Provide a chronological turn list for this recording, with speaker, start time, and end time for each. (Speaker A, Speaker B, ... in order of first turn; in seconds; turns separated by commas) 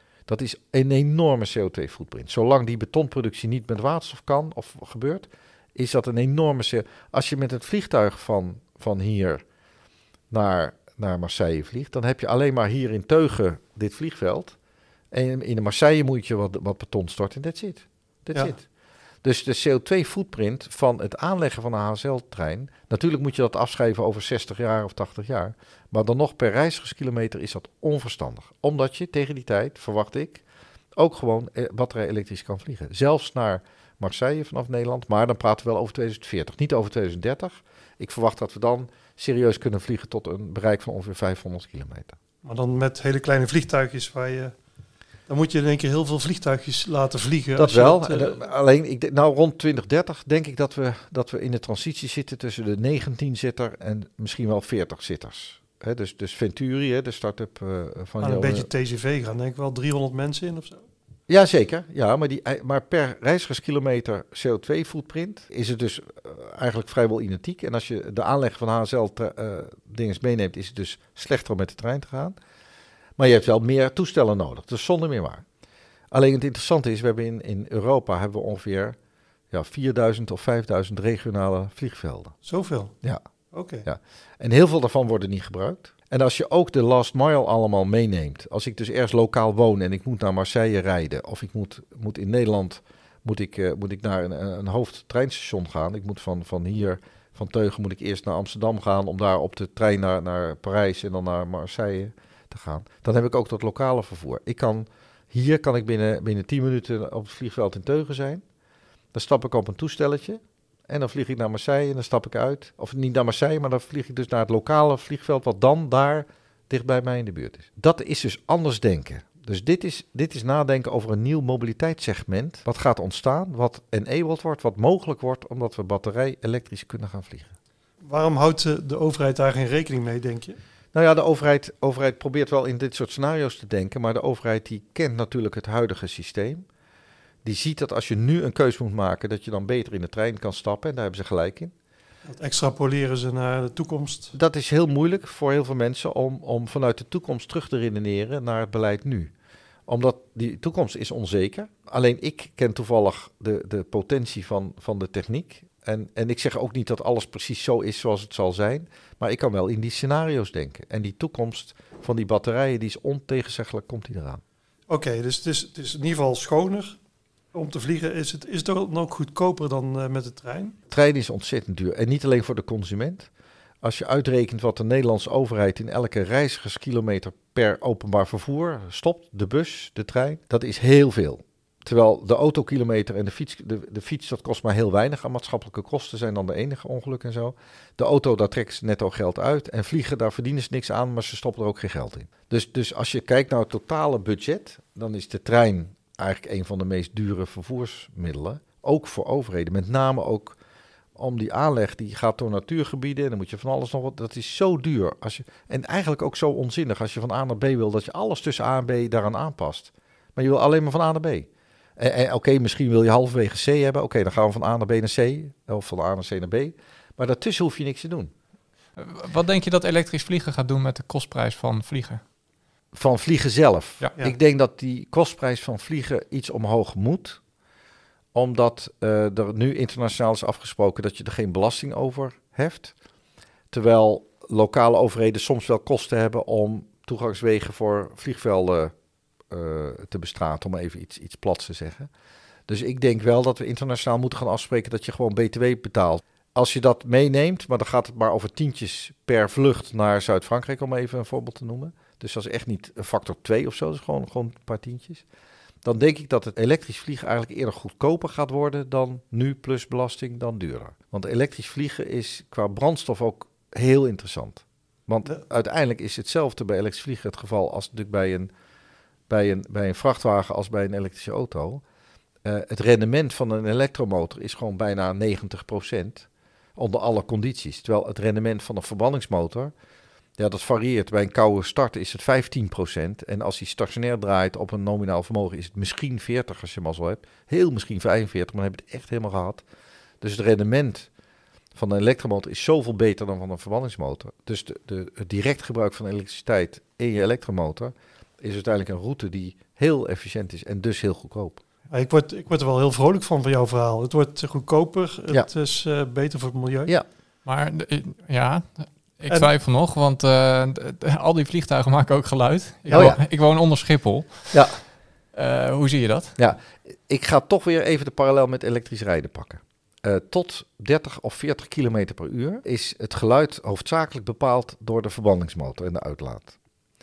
Speaker A: 0.3-9.4, Speaker A: 10.3-14.6, Speaker A: 15.1-18.6, Speaker A: 19.2-30.4, Speaker A: 31.0-42.2, Speaker B: 42.4-44.5, Speaker B: 45.3-48.4, Speaker A: 47.6-58.7, Speaker B: 58.2-60.8, Speaker A: 61.3-72.4, Speaker A: 73.2-75.5, Speaker A: 76.1-79.0, Speaker A: 79.5-82.3, Speaker B: 82.4-82.9, Speaker B: 83.5-83.9, Speaker A: 83.8-108.4, Speaker A: 109.1-127.5, Speaker B: 128.0-130.6, Speaker A: 130.9-136.7, Speaker A: 137.4-141.7, Speaker B: 142.3-144.3, Speaker A: 144.3-149.3, Speaker A: 149.9-164.4, Speaker B: 164.9-167.0, Speaker B: 167.5-170.8, Speaker A: 170.9-173.3, Speaker A: 173.8-200.6, Speaker A: 201.2-218.3, Speaker C: 219.0-222.2, Speaker A: 222.9-227.4, Speaker A: 228.3-232.9, Speaker A: 233.7-238.9, Speaker A: 239.5-242.1, Speaker A: 242.7-255.2, Speaker A: 255.8-268.5, Speaker A: 269.3-271.8, Speaker A: 272.4-279.7, Speaker A: 280.4-289.6, Speaker A: 290.2-291.1, Speaker A: 291.8-301.6, Speaker B: 301.9-306.9, Speaker C: 307.4-314.7, Speaker A: 312.9-313.2, Speaker A: 314.5-314.8, Speaker C: 315.3-316.4, Speaker A: 316.4-326.6